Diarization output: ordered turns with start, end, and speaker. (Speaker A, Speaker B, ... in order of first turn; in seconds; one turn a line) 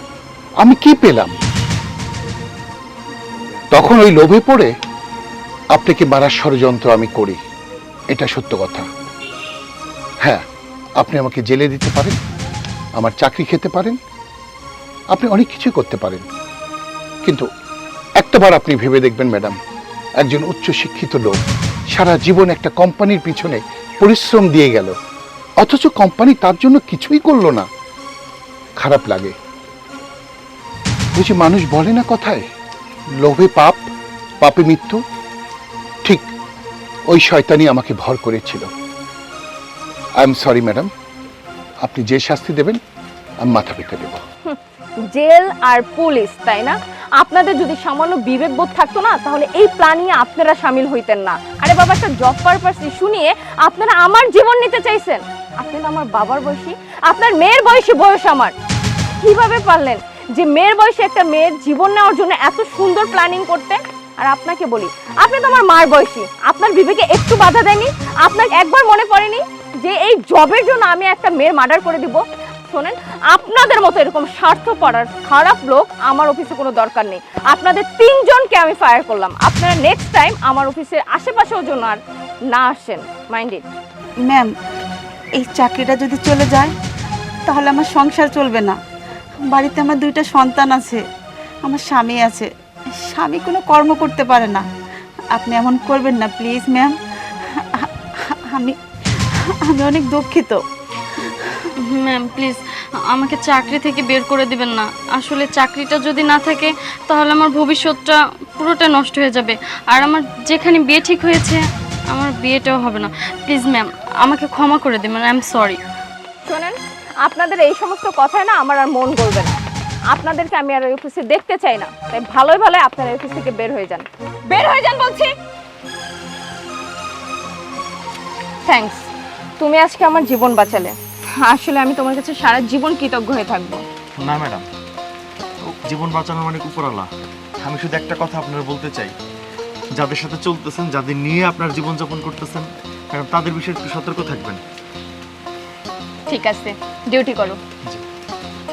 Speaker A: 0.6-1.3
Speaker A: 3.7-4.7
Speaker A: 5.7-7.4
Speaker A: 8.1-8.9
Speaker A: 11.0-12.2
Speaker A: 13.0-14.0
Speaker A: 15.1-16.3
Speaker A: 18.2-19.6
Speaker A: 20.2-21.4
Speaker A: 21.9-24.9
Speaker A: 25.6-27.7
Speaker A: 28.8-29.4
Speaker A: 31.1-32.5
Speaker A: 33.2-33.8
Speaker A: 34.4-35.0
Speaker A: 37.1-38.7
Speaker A: 40.2-40.9
Speaker A: 41.8-42.8
Speaker A: 43.4-44.2
Speaker B: 45.1-58.5
Speaker B: 59.2-82.0
Speaker B: 82.5-83.7
Speaker C: 84.2-84.5
Speaker C: 85.4-86.7
Speaker C: 87.5-88.8
Speaker C: 89.4-91.0
Speaker C: 91.7-92.5
Speaker C: 93.0-94.6
Speaker C: 95.3-96.9
Speaker C: 97.5-98.8
Speaker C: 99.3-100.6
Speaker C: 101.2-101.6
Speaker D: 101.8-115.8
Speaker B: 116.5-119.6
Speaker B: 120.1-125.3
Speaker B: 128.7-129.1
Speaker B: 129.6-133.8
Speaker E: 134.2-134.7
Speaker E: 135.8-137.1
Speaker E: 137.6-139.2
Speaker E: 140.0-144.6
Speaker B: 146.3-147.6